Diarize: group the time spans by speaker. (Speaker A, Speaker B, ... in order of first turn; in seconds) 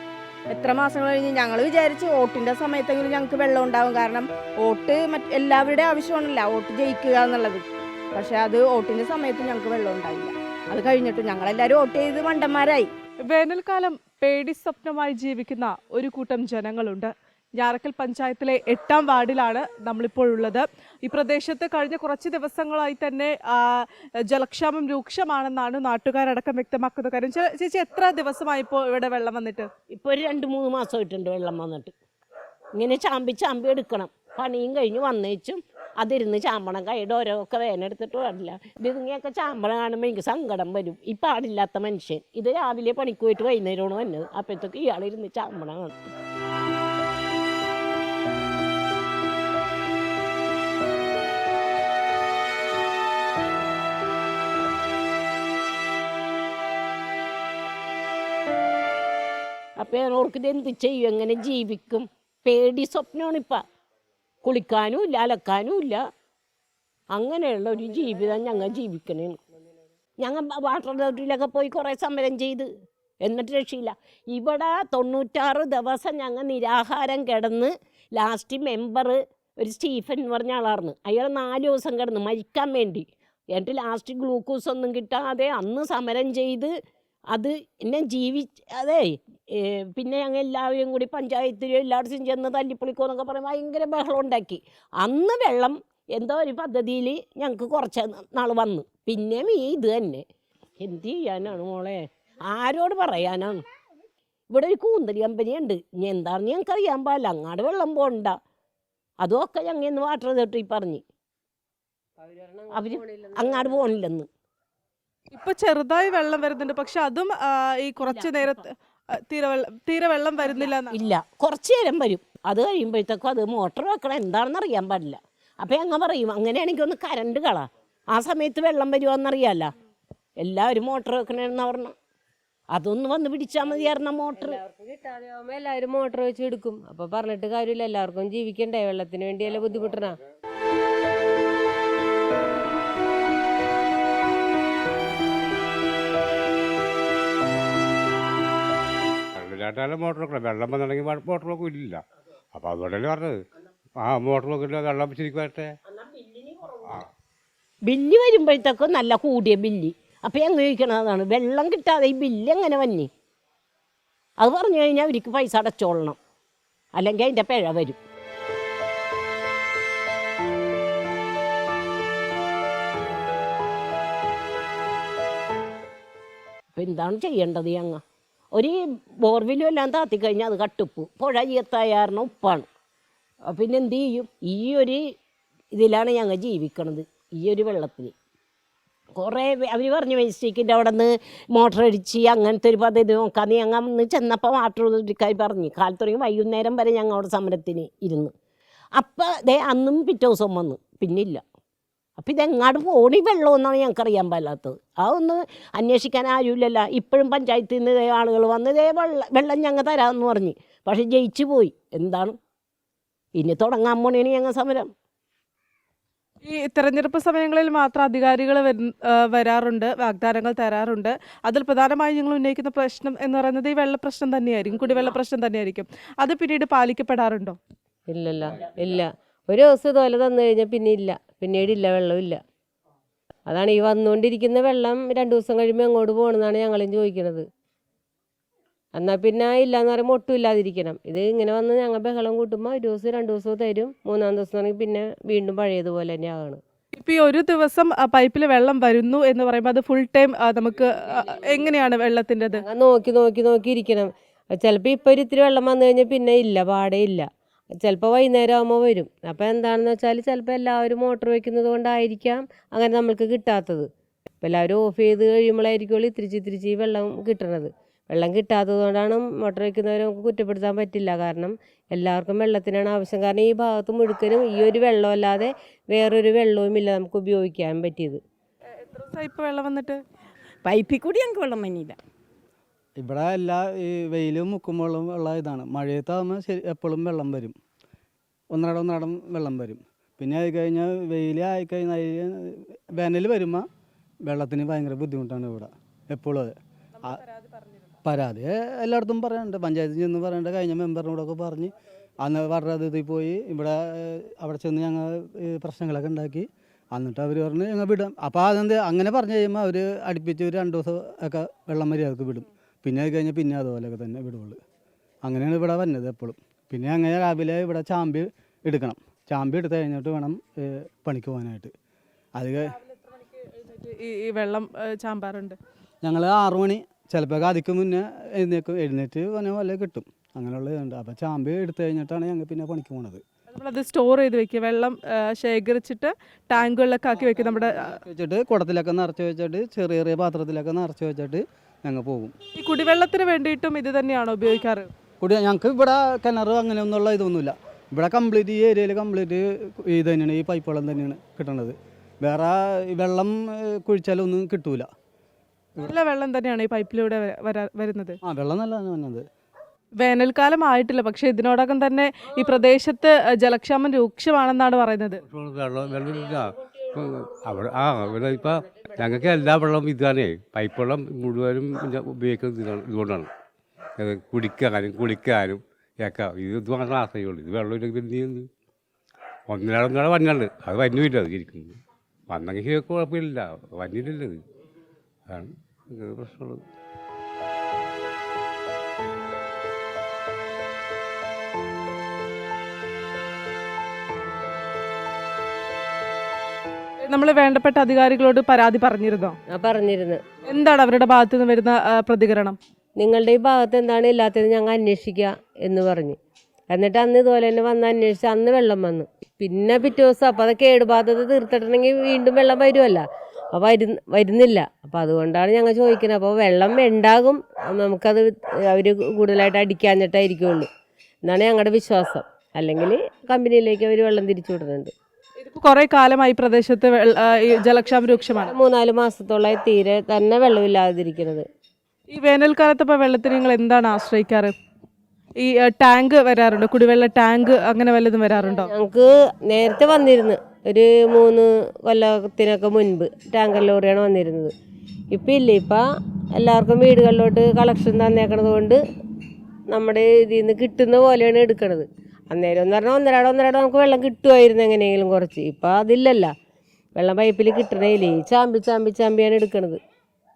Speaker A: 0.5-12.9, 280.6-282.0
Speaker B: 13.3-29.7, 115.3-118.7, 119.3-121.0, 216.5-227.6, 246.9-252.6, 278.8-280.0, 297.0-297.9, 322.9-325.6, 333.6-338.0, 342.6-344.9, 355.8-358.2, 360.0-365.2, 397.1-399.4, 400.5-402.6, 425.4-428.5, 432.1-434.5, 435.4-438.7
Speaker C: 29.9-31.9, 32.8-46.0, 59.8-63.6, 64.4-66.0, 67.1-69.4, 70.2-72.7, 73.2-86.7, 87.3-100.2, 100.8-103.6, 104.5-108.4, 109.2-111.0, 112.7-114.3, 120.9-129.7, 130.4-131.9, 132.7-134.6, 157.9-163.1, 164.4-166.2, 167.0-168.0, 176.8-178.0, 178.5-182.7, 183.5-185.0, 185.7-188.1, 189.2-198.3, 199.0-201.4, 202.2-212.4, 213.4-214.9
Speaker D: 112.2-113.9, 133.7-140.2, 228.1-232.4, 233.5-237.5, 238.9-246.6, 252.5-263.9, 264.4-278.2, 399.5-400.2, 403.0-406.2, 406.7-420.7, 421.2-424.9, 428.5-431.5, 438.5-444.5, 445.1-448.8, 449.7-456.3, 457.0-459.8
Speaker E: 149.3-152.0, 152.6-153.4, 154.0-155.7, 156.8-157.1, 365.3-373.3, 374.0-378.5, 379.5-381.8, 382.3-384.4, 385.3-386.6
Speaker F: 283.0-287.6, 288.5-293.7, 294.3-297.2, 298.1-314.6, 315.2-321.7, 322.4-322.8, 326.0-333.2, 337.3-342.4, 345.2-354.9, 358.2-359.2